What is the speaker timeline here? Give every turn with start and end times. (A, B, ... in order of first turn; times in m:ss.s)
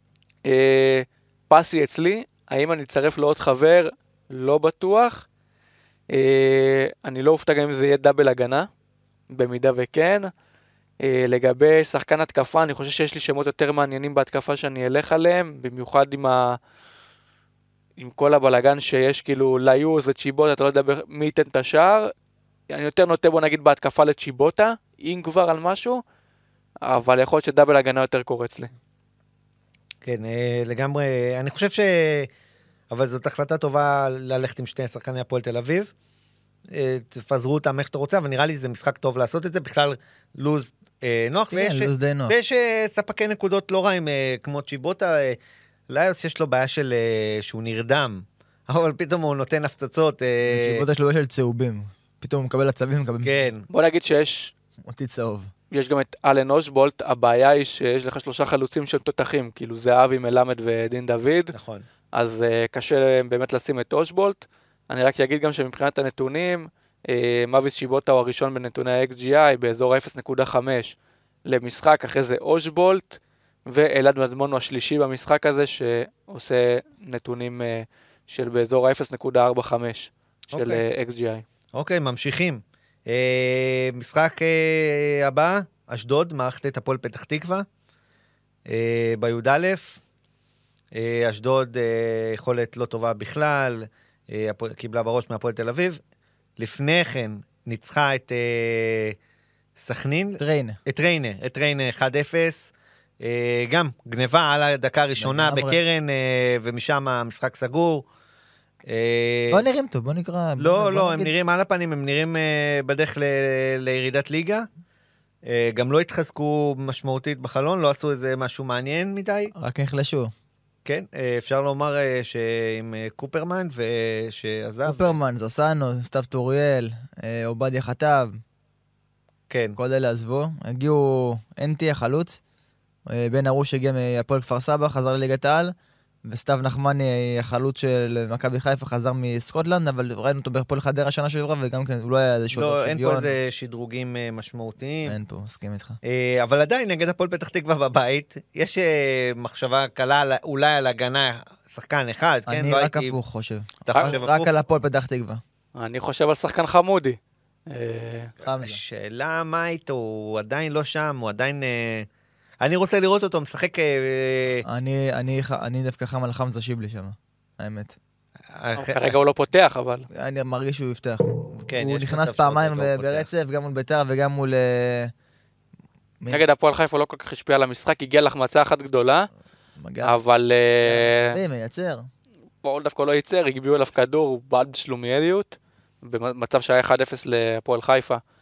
0:00.4-0:05.3 A
0:06.1-0:08.7 A
0:09.3-0:10.3 A
0:11.0-0:16.6 A
0:18.0-0:22.1 A
0:22.7-0:26.0 A
0:26.8-0:28.7 A
0:30.0-0:32.3 B
0:32.9-0:35.9 B
0:36.7-0:45.4 B
0:41.5-0:42.3 C
0:45.9-0:50.8 B
0:50.5-0:53.4 C
0:53.2-0:53.7 B
0:53.7-0:54.5 A
0:54.8-0:55.5 C
0:55.7-1:01.5 A
1:01.5-1:01.8 B
1:02.1-1:10.9 A
1:11.5-1:21.4 A
1:20.5-1:20.8 B
1:21.7-1:27.6 B
1:28.7-1:30.0 B
1:30.9-1:36.0 B
1:36.6-1:39.2 B
1:39.8-1:42.7 B
1:40.4-1:40.8 C
1:43.2-1:48.0 B
1:45.2-1:45.8 C
1:48.9-1:49.6 B
1:49.5-1:51.3 C
1:50.6-1:54.7 B
1:55.4-1:59.5 B
1:59.6-2:00.3 C
2:00.8-2:05.2 B
2:04.8-2:08.3 C
2:09.5-2:09.8 B
2:09.8-2:12.4 C
2:13.1-2:15.7 C
2:16.2-2:23.4 C
2:22.5-2:25.1 B
2:25.0-2:26.0 C
2:26.0-2:33.1 B
2:32.5-2:35.4 C
2:33.8-2:34.5 B
2:35.8-2:37.2 A
2:37.7-2:38.3 A
2:38.4-2:42.1 B
2:38.4-2:38.8 C
2:42.6-2:44.6 B
2:44.6-2:48.0 C
2:48.5-2:49.1 B
2:48.8-2:50.1 A
2:50.1-2:55.1 C
2:51.6-2:53.3 B
2:56.3-2:59.3 A
2:59.8-3:00.1 C
3:00.0-3:01.4 A
3:00.8-3:02.0 C
3:02.6-3:08.2 A